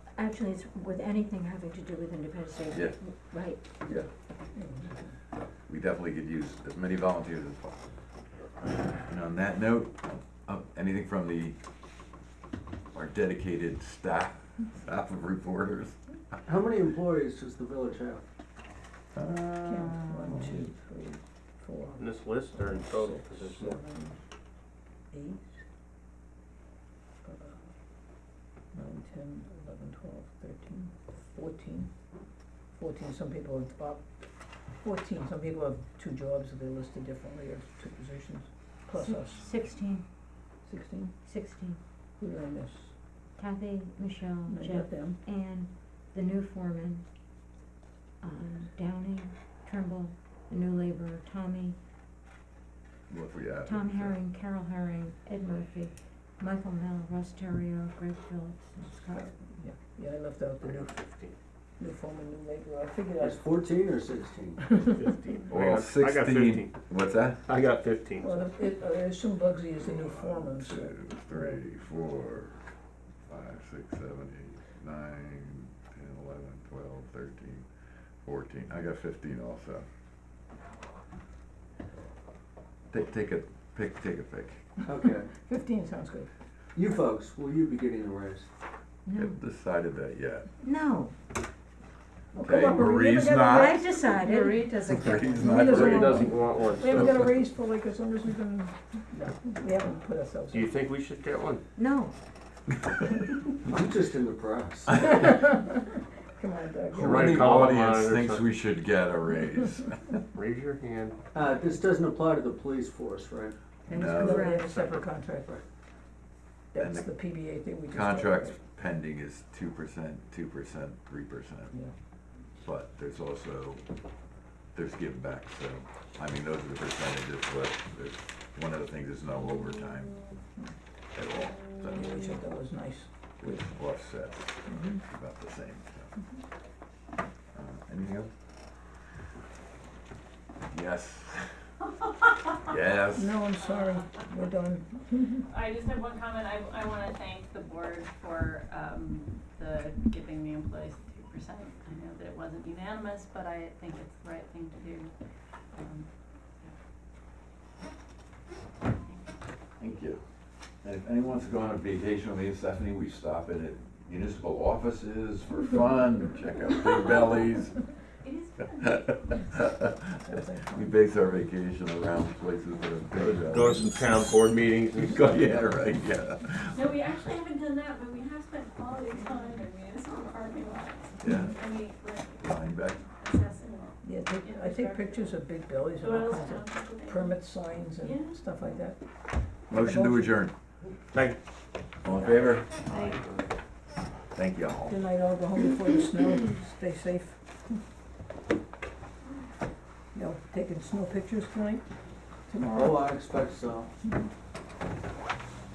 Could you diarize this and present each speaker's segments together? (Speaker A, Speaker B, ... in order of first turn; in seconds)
Speaker A: 0.1-3.6, 38.9-40.0, 41.2-41.8, 43.4-47.0, 48.2-51.8, 53.6-59.3, 89.0-89.4, 90.6-91.1, 93.2-96.3, 101.8-102.1, 114.1-114.7
Speaker B: 4.5-5.0, 19.6-24.2, 25.1-25.6, 27.2-27.6, 28.7-31.9, 32.8-34.0, 34.8-39.4, 40.6-41.1, 42.2-42.9, 44.5-45.2, 59.1-60.9, 61.8-63.4, 68.2-71.6, 85.4-86.3, 92.3-94.5, 95.4-96.0, 96.8-100.7, 104.9-107.4, 113.9-115.5, 116.7-118.6, 131.9-133.1, 134.7-135.0, 143.1-145.4, 170.2-170.9, 184.0-189.0, 189.7-190.4, 194.9-197.4, 200.1-201.8, 202.5-203.1
Speaker C: 5.7-7.7, 9.1-11.6, 12.9-15.9, 19.1-20.6, 53.1-54.2, 65.5-67.4, 69.8-72.6, 73.3-77.7, 78.2-79.8, 82.9-84.6, 89.2-90.5, 92.4-93.8, 94.9-97.1, 107.0-110.2, 113.9-114.5, 116.8-117.2, 117.9-121.7, 122.6-123.8, 124.7-130.2, 131.1-132.3, 133.4-136.1, 137.5-138.3, 140.7-141.4, 142.6-143.4, 159.8-160.2, 160.8-167.7, 168.8-174.2, 175.0-176.8, 181.2-181.6, 182.4-183.0, 189.7-190.5, 192.0-192.7, 194.3-194.9
Speaker D: 16.4-18.2, 63.2-64.7, 84.8-85.3, 86.7-88.5, 103.7-105.1, 111.3-113.5, 202.7-203.9
Speaker E: 21.9-23.8, 60.6-61.4, 64.9-66.8, 67.5-68.5, 95.6-97.3, 100.5-101.6, 106.9-108.5, 110.3-111.2, 173.1-175.9, 192.9-193.4
Speaker F: 145.5-155.1, 155.7-156.1, 168.2-169.6, 176.7-182.5, 183.0-185.3, 186.0-187.4, 188.0-188.3, 192.9-193.1